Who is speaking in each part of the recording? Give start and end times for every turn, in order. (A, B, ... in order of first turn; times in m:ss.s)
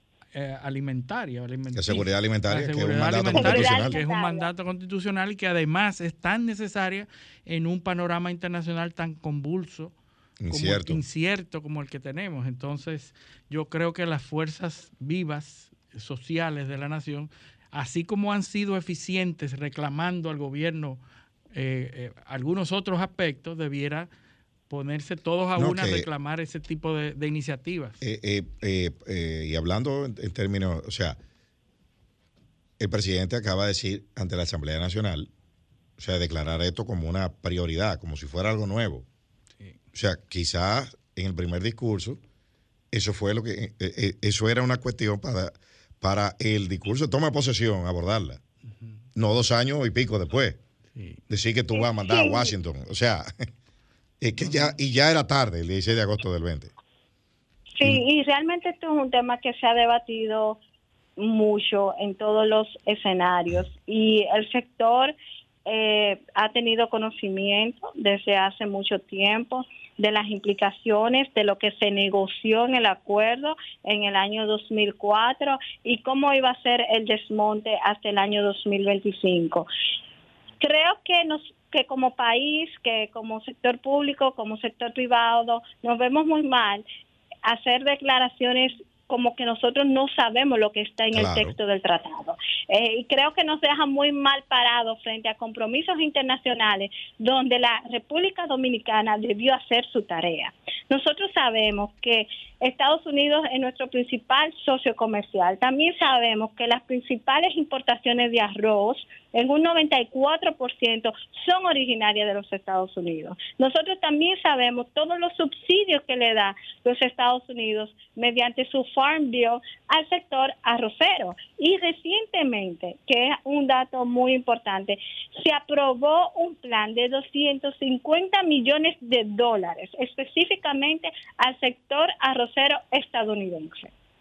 0:00.3-0:09.9 A
0:01.7-0:04.0 B
0:03.3-0:04.5 C
0:10.4-0:11.0 B
0:10.5-0:21.0 A
0:21.5-0:24.1 A
0:24.7-0:28.0 A
0:25.6-0:26.1 B
0:28.0-0:31.2 B
0:32.8-0:35.3 B
0:36.0-0:39.1 B
0:39.9-0:42.2 B
0:42.9-0:48.4 B
0:49.2-0:50.6 B
0:50.9-0:51.2 A
0:51.3-0:53.3 B
0:52.0-0:52.5 C
0:54.2-0:56.7 B
0:54.4-0:54.8 A
0:57.8-1:00.6 C
1:01.2-1:05.1 C
1:05.7-1:19.7 C
1:20.6-1:26.8 C
1:27.5-2:13.9 C
1:31.1-1:31.6 B